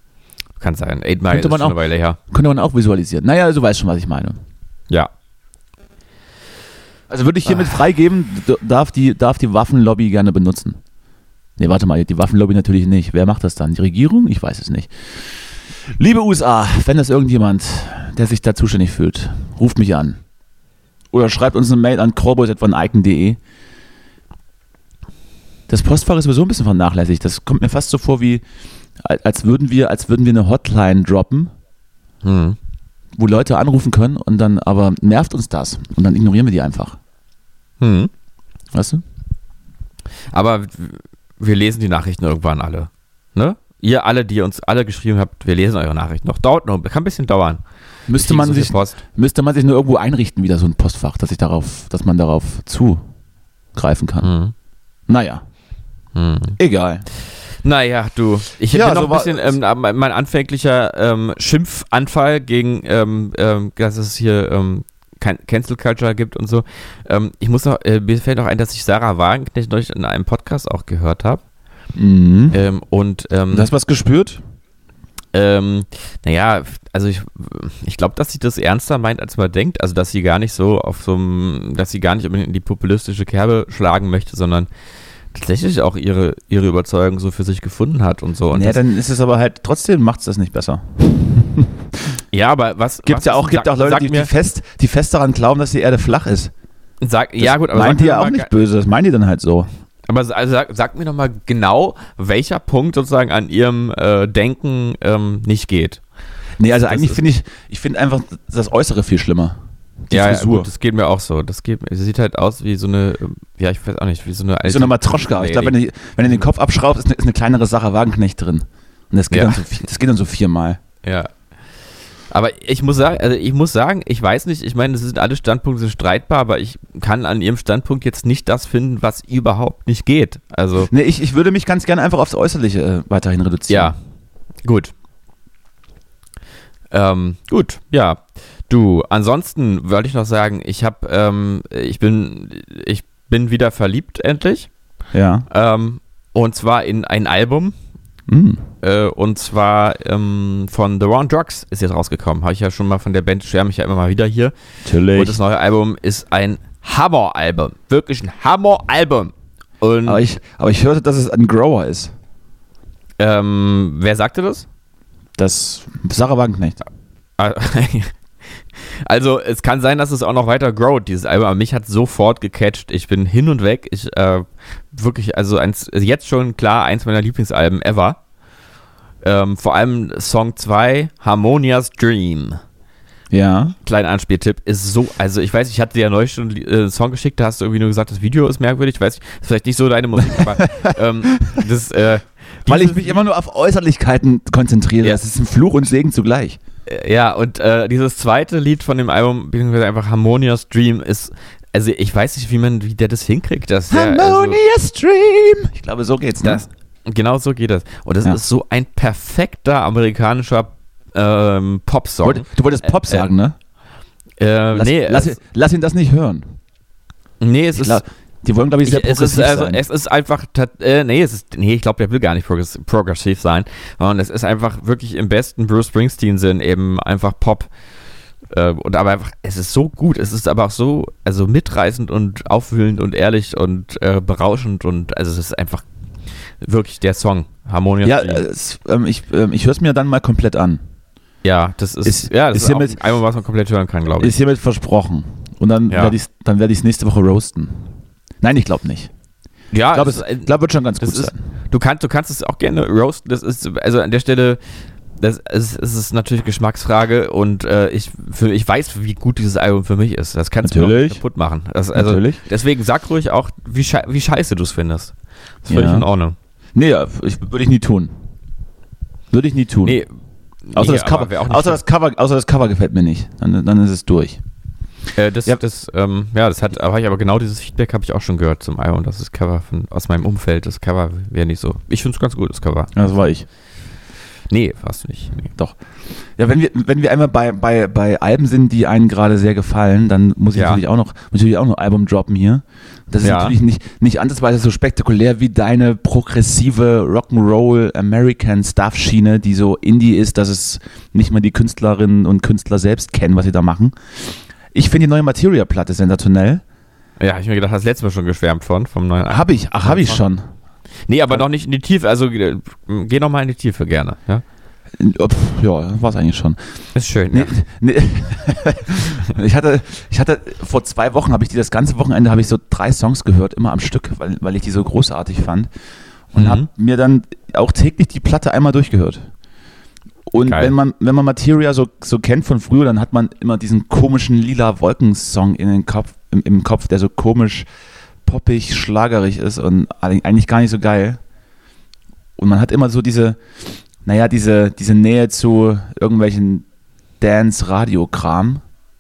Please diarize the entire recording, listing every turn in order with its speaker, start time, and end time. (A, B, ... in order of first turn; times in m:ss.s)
0:00.6-0:02.2 A
0:01.3-0:04.4 B
0:07.1-0:10.8 B
0:11.6-0:14.9 B
0:15.9-0:20.2 B
0:21.1-0:23.4 B
0:25.7-0:28.4 B
0:29.0-0:31.5 B
0:32.2-0:32.6 A
0:33.2-0:37.0 B
0:37.8-0:38.1 A
0:38.7-0:39.0 B
0:40.3-0:47.6 A
0:48.1-0:53.0 B
0:48.2-0:49.0 A
0:53.8-0:54.3 B
0:54.2-0:54.5 A
0:55.1-0:55.4 B
0:56.2-0:56.6 A
0:56.6-0:57.0 B
0:57.6-1:11.4 A
0:58.7-0:59.6 B
1:12.0-1:12.6 B
1:12.5-1:13.7 A
1:13.5-1:14.4 B
1:15.3-1:24.7 A
1:25.3-1:28.8 A
1:28.5-1:31.8 B
1:32.3-1:34.3 A
1:33.0-1:36.5 B
1:37.0-1:38.5 A
1:37.4-1:39.7 B
1:40.1-1:46.0 A
1:46.6-1:49.6 B
1:46.7-1:47.2 A
1:50.1-1:50.7 B
1:50.1-1:55.8 A
1:54.6-2:00.8 B
1:59.3-1:59.6 A
2:01.0-2:01.3 A
2:02.3-2:10.9 A
2:10.9-2:14.0 B
2:13.7-2:14.0 A
2:14.6-2:14.9 A
2:16.9-2:24.7 A
2:25.1-2:25.5 B
2:25.5-2:27.7 A
2:28.3-2:28.6 B
2:28.8-2:34.5 A
2:34.8-2:35.4 B
2:35.1-2:40.2 A
2:40.0-2:42.1 B
2:43.2-2:44.7 A
2:45.4-2:46.8 B
2:47.4-2:48.1 A
2:48.8-2:58.2 A
2:59.2-3:02.6 A
3:03.3-3:03.8 B
3:03.8-3:13.2 A
3:10.3-3:11.6 B
3:12.7-3:16.6 B
3:16.9-3:24.6 A
3:23.9-3:26.7 B
3:26.4-3:33.2 A
3:32.2-3:33.6 B
3:34.4-3:35.4 A
3:34.7-3:36.6 B
3:37.4-3:38.0 A
3:37.7-3:39.8 B
3:38.8-3:47.7 A
3:48.5-3:55.8 A
3:56.6-3:58.5 A
3:58.0-4:00.8 B
4:01.4-4:04.3 A
4:02.0-4:03.0 B
4:04.2-4:09.1 B
4:05.9-4:06.2 A
4:09.7-4:10.5 A
4:09.9-4:11.5 B
4:11.0-4:14.6 A
4:15.2-4:25.1 A
4:20.6-4:21.2 B
4:21.9-4:22.4 B
4:25.7-4:26.4 A
4:25.7-4:26.1 B
4:26.8-4:28.1 B
4:29.3-4:30.0 B
4:29.8-4:30.1 A
4:30.7-4:31.8 A
4:30.7-4:34.4 B
4:35.2-4:42.9 A
4:42.9-4:43.5 B
4:44.5-4:45.5 A
4:46.4-5:04.0 B
4:50.6-4:50.8 A
4:53.2-4:53.6 A
5:04.7-5:06.6 B
5:07.2-5:10.2 A
5:09.3-5:10.5 B
5:11.1-5:14.4 A
5:15.0-5:16.6 B
5:17.0-5:17.6 A
5:17.3-5:25.7 B
5:26.3-5:29.3 B
5:26.4-5:26.7 A
5:30.3-5:37.7 B
5:30.4-5:30.8 A
5:38.2-5:41.2 B
5:42.4-5:43.4 B
5:44.0-5:46.6 B
5:47.2-5:48.6 B